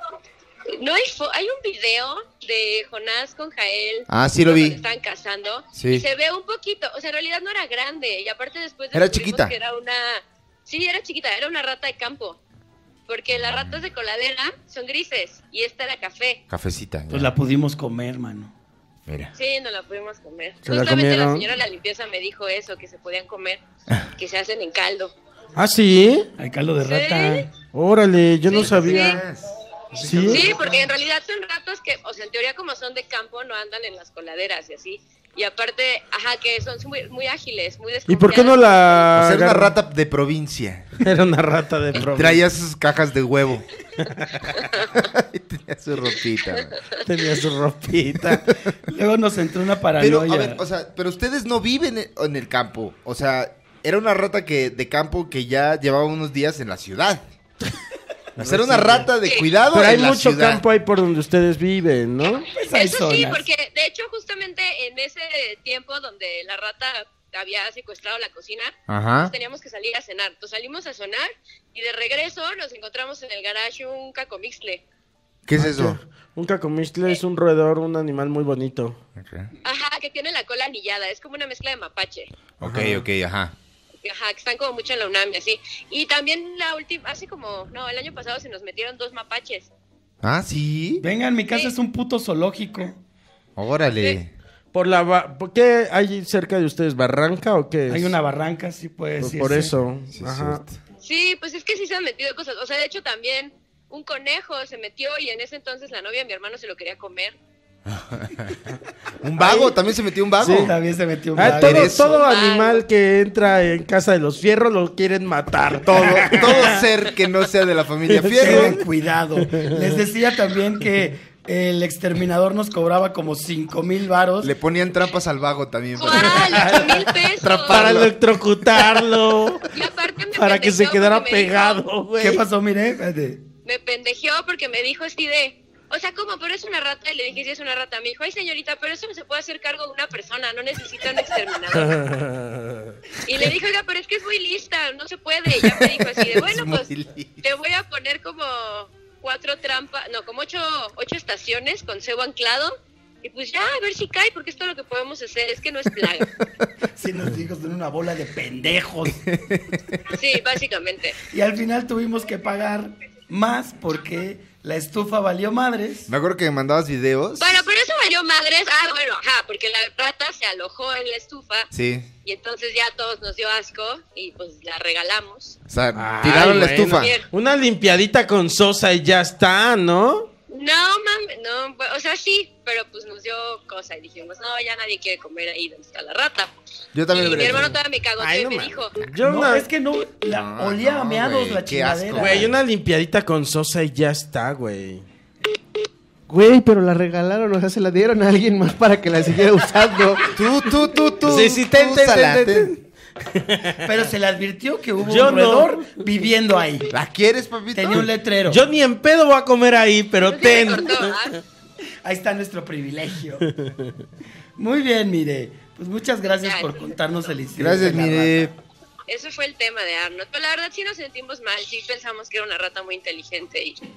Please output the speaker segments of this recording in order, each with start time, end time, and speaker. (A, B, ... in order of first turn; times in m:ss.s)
0:00.8-0:12.4 A
0:04.1-0:04.8 B
0:05.7-0:06.1 B
0:08.9-0:09.6 B
0:13.1-0:16.4 A
0:13.4-0:13.8 B
0:16.5-0:17.3 B
0:17.1-0:18.5 C
0:19.1-0:19.3 B
0:19.4-0:23.6 A
0:20.6-0:21.5 D
0:24.2-0:25.1 A
0:25.6-0:26.3 D
0:26.4-0:27.5 C
0:26.9-0:27.5 A
0:27.7-0:29.2 D
0:28.5-0:29.2 A
0:28.5-0:30.9 B
0:30.0-0:30.5 D
0:30.3-0:39.1 A
0:38.1-0:39.8 D
0:39.1-0:40.9 B
0:41.0-0:42.4 D
0:42.0-0:43.7 B
0:44.0-0:44.6 D
0:44.9-0:46.8 B
0:47.0-0:48.5 D
0:48.3-0:48.8 B
0:48.9-0:50.6 C
0:50.0-0:57.3 B
0:58.4-0:59.1 D
0:58.4-1:00.6 B
0:59.2-0:59.5 A
0:59.7-1:02.5 D
1:02.5-1:03.5 C
1:02.7-1:14.8 A
1:08.9-1:09.3 B
1:15.5-1:16.0 B
1:15.6-1:19.0 D
1:19.2-1:19.5 B
1:19.6-1:22.3 A
1:22.6-1:23.6 B
1:22.6-1:23.0 D
1:24.0-1:29.7 A
1:30.2-1:31.0 B
1:31.0-1:33.0 C
1:33.6-1:34.3 B
1:34.7-1:38.2 D
1:37.9-1:39.8 C
1:39.2-1:40.6 D
1:40.1-1:40.8 B
1:41.0-1:47.4 A
1:47.9-1:48.6 B
1:49.2-1:50.7 B
1:49.4-1:49.7 C
1:50.4-1:50.7 D
1:50.4-1:52.1 C
1:51.4-1:56.8 D
1:51.4-1:52.2 B
1:52.1-1:52.8 A
1:55.8-1:58.8 B
1:58.1-1:58.8 D
1:58.4-2:04.5 C
1:59.5-2:00.0 D
2:04.4-2:08.2 B
2:06.0-2:08.0 A
2:06.6-2:07.0 C
2:07.7-2:09.7 D
2:08.8-2:09.0 B
2:09.7-2:11.8 A
2:10.3-2:12.4 D
2:12.2-2:13.5 C
2:13.6-2:22.0 A
2:21.8-2:23.0 D
2:23.2-2:26.9 A
2:25.6-2:27.5 B
2:27.4-2:36.3 A
2:37.0-2:39.2 C
2:39.2-2:40.1 B
2:40.1-2:41.2 A
2:41.3-2:46.1 C
2:46.1-2:47.7 B
2:47.4-2:51.7 A
2:51.7-2:52.1 B
2:52.2-2:55.6 A
2:55.7-2:57.2 B
2:56.0-3:00.3 D
2:56.4-2:57.3 A
3:00.5-3:06.5 A
3:07.0-3:07.8 B
3:07.1-3:09.0 A
3:07.2-3:09.7 D
3:09.2-3:12.5 C
3:10.3-3:12.5 B
3:12.2-3:15.1 D
3:16.3-3:20.4 E
3:20.3-3:22.7 B
3:21.2-3:22.6 D
3:21.4-3:22.6 E
3:23.2-3:23.9 D
3:23.8-3:26.9 C
3:25.0-3:26.0 D
3:26.9-3:28.1 B
3:27.7-3:28.6 C
3:28.5-3:31.4 D
3:30.2-3:31.3 A
3:32.0-3:33.5 C
3:33.5-3:34.0 D
3:34.6-3:38.5 C
3:36.4-3:36.8 A
3:37.6-3:38.5 B
3:39.1-3:43.8 A